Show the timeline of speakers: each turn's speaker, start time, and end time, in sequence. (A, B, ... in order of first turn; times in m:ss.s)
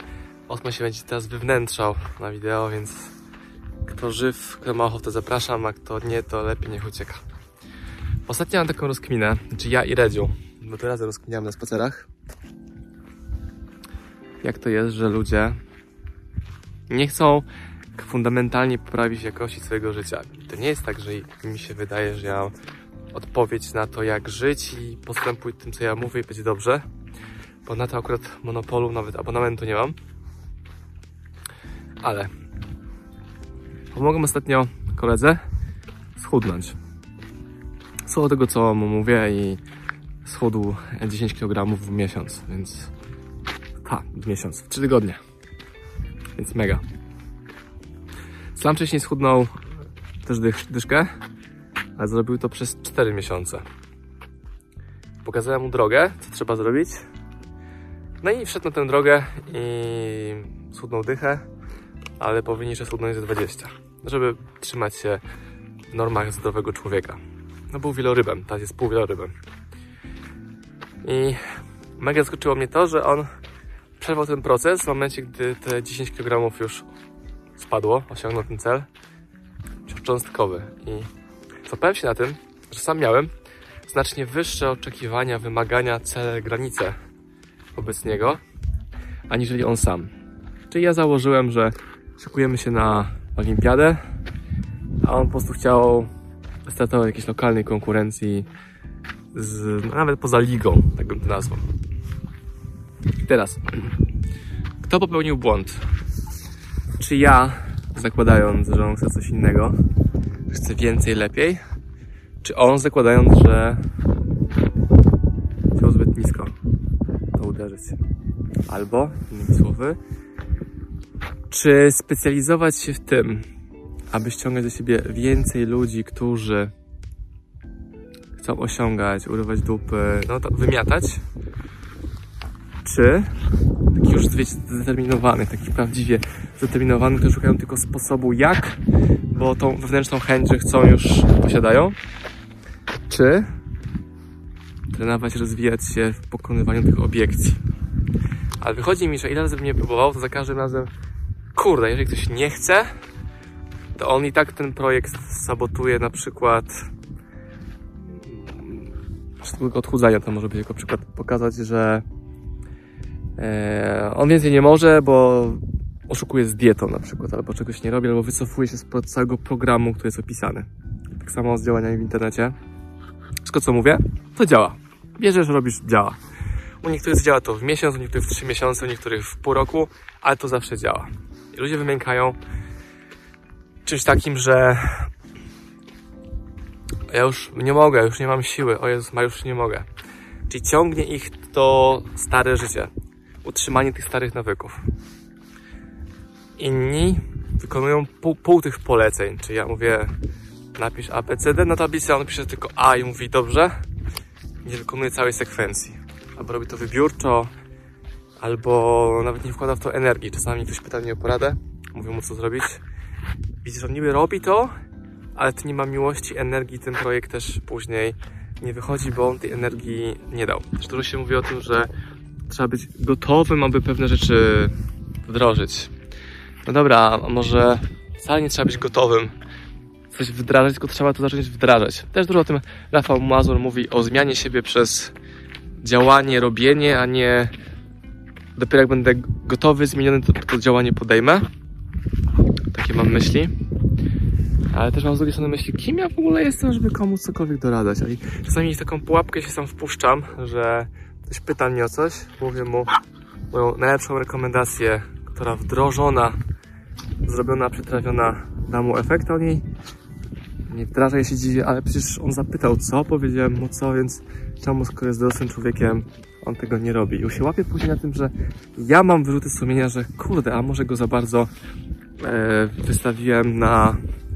0:00.5-0:03.1 A
0:03.8-0:07.2 A
0:08.3-0:12.1 A
0:14.4-0:15.6 A
0:16.9-0:22.5 A
0:23.1-0:26.9 A
0:27.6-0:30.0 A
0:32.0-0:32.3 A
0:33.9-0:35.4 A
0:36.2-0:36.8 A
0:38.1-0:39.6 A
0:40.2-0:42.9 A
0:43.8-0:45.2 A
0:46.4-0:46.8 A
0:48.5-0:49.6 A
0:50.2-0:51.1 A
0:52.0-0:53.6 A
0:55.2-0:57.0 A
0:58.2-1:01.5 A
1:02.2-1:05.2 A
1:05.9-1:09.4 A
1:11.0-1:11.4 A
1:12.0-1:13.3 A
1:14.0-1:16.9 A
1:17.6-1:18.9 A
1:19.9-1:21.1 A
1:21.6-1:23.3 A
1:23.9-1:27.0 A
1:27.8-1:28.4 A
1:29.3-1:30.1 A
1:30.7-1:34.0 A
1:35.0-1:36.1 A
1:36.6-1:38.5 A
1:39.3-1:41.7 A
1:43.2-1:43.9 A
1:44.8-1:45.8 A
1:47.0-1:49.8 A
1:50.5-1:51.6 A
1:52.4-1:53.8 A
1:55.7-1:56.6 A
1:57.3-1:58.0 A
1:58.7-2:00.0 A
2:01.5-2:03.5 A
2:04.1-2:06.7 A
2:08.4-2:11.2 A
2:12.8-2:13.3 A
2:13.9-2:22.0 A
2:23.1-2:23.5 A
2:24.9-2:27.6 A
2:28.6-2:30.9 A
2:31.6-2:32.9 A
2:34.0-2:36.9 A
2:38.0-2:42.0 A
2:43.4-2:52.6 A
2:53.4-2:56.2 A
2:56.8-3:02.4 A
3:03.8-3:05.1 A
3:07.1-3:09.9 A
3:10.5-3:12.9 A
3:13.4-3:14.9 A
3:16.6-3:20.2 A
3:20.8-3:23.8 A
3:24.6-3:27.5 A
3:28.4-3:32.8 A
3:33.6-3:34.7 A
3:35.4-3:41.9 A
3:42.5-3:45.9 A
3:46.6-3:49.4 A
3:50.1-3:55.1 A
3:55.8-3:57.5 A
3:58.6-4:01.5 A
4:02.7-4:03.5 A
4:04.7-4:12.9 A
4:13.5-4:16.4 A
4:17.2-4:19.7 A
4:20.7-4:31.5 A
4:32.2-4:34.0 A